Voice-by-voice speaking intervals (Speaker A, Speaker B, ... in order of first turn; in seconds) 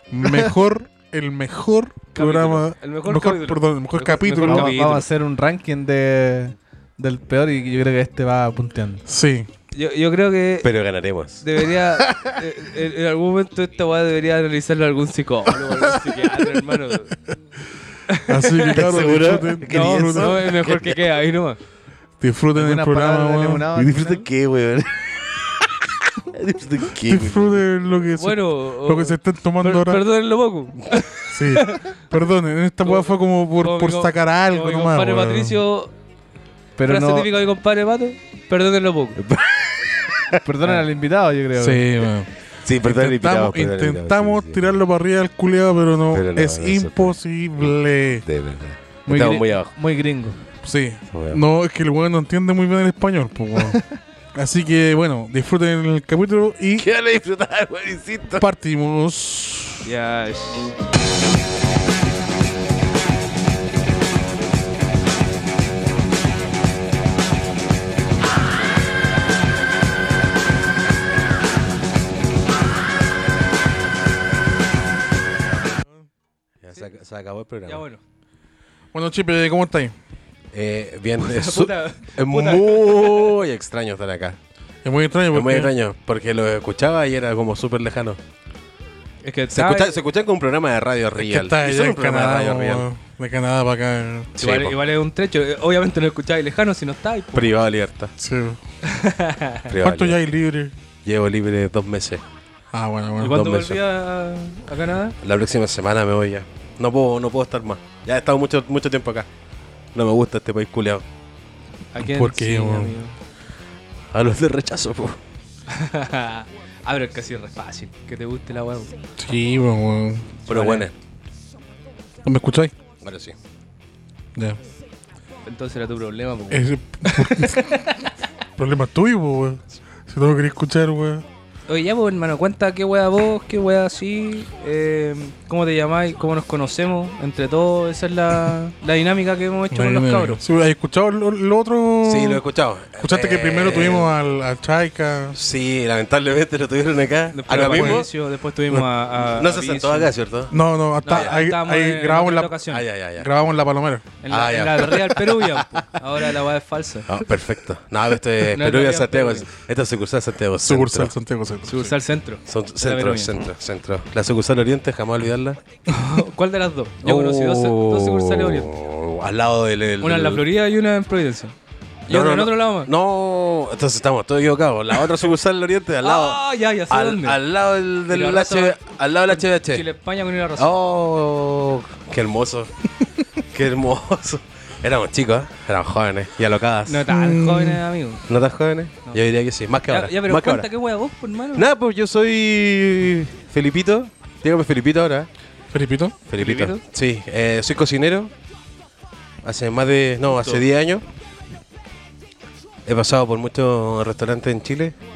Speaker A: 0.1-4.8, 9.1-9.5, 18.3-20.5, 22.2-23.7, 27.1-30.0, 31.3-35.6, 41.5-42.3, 42.8-48.2, 50.6-53.8, 54.3-56.9, 58.4-59.8, 78.9-79.9, 84.8-85.7, 91.2-94.3, 98.2-98.6, 99.8-100.7, 102.7-103.4, 112.0-112.9, 119.2-120.3, 122.2-122.7, 126.5-127.9, 128.6-131.2, 139.7-142.4, 143.0-145.4, 147.5-148.1, 150.5-152.6, 153.2-154.1, 160.6-161.9, 187.1-187.8, 195.7-196.2
Speaker B: 2.1-5.0, 9.7-10.7, 11.4-17.1, 18.1-18.8, 19.6-21.6, 28.2-31.9, 32.8-35.9, 36.8-39.2, 59.8-60.7, 77.7-78.0, 81.2-83.4, 89.2-90.0, 94.4-97.5, 98.9-99.6, 103.2-105.2, 111.9-113.1, 115.7-118.9, 120.4-120.8, 125.5-127.8, 131.7-140.4, 147.3-150.1, 151.0-152.8, 154.2-157.1, 158.5-159.5, 161.7-163.4, 165.9-168.7, 170.0-171.5, 172.1-172.9, 176.0-177.4, 178.1-178.8, 179.3-180.7, 186.8-188.2, 189.9-191.7, 196.3-196.8, 200.3-200.6
Speaker C: 4.5-9.0, 22.5-24.3, 36.8-37.3, 40.4-41.8, 49.0-50.4
Speaker D: 10.6-11.5, 12.0-12.3, 18.7-21.0, 23.7-27.6, 39.2-40.4, 42.6-44.8, 46.1-49.7, 51.1-51.4, 56.8-58.5, 76.6-77.8, 80.5-84.4, 85.3-88.2, 89.5-92.9, 94.4-94.8, 97.3-98.1, 99.7-100.2, 101.0-102.2, 103.2-103.8, 105.2-109.3, 109.9-111.0, 114.1-115.2, 120.5-120.9, 123.0-123.3, 142.0-144.2, 145.3-148.1, 149.2-150.5, 151.1-151.4, 152.7-153.3, 154.3-155.8, 157.1-161.1, 162.4-165.6, 167.0-170.4, 172.1-179.8, 180.6-182.7, 183.5-187.1, 188.3-190.7, 191.5-195.3, 196.3-198.3, 199.4-201.0, 202.8-204.9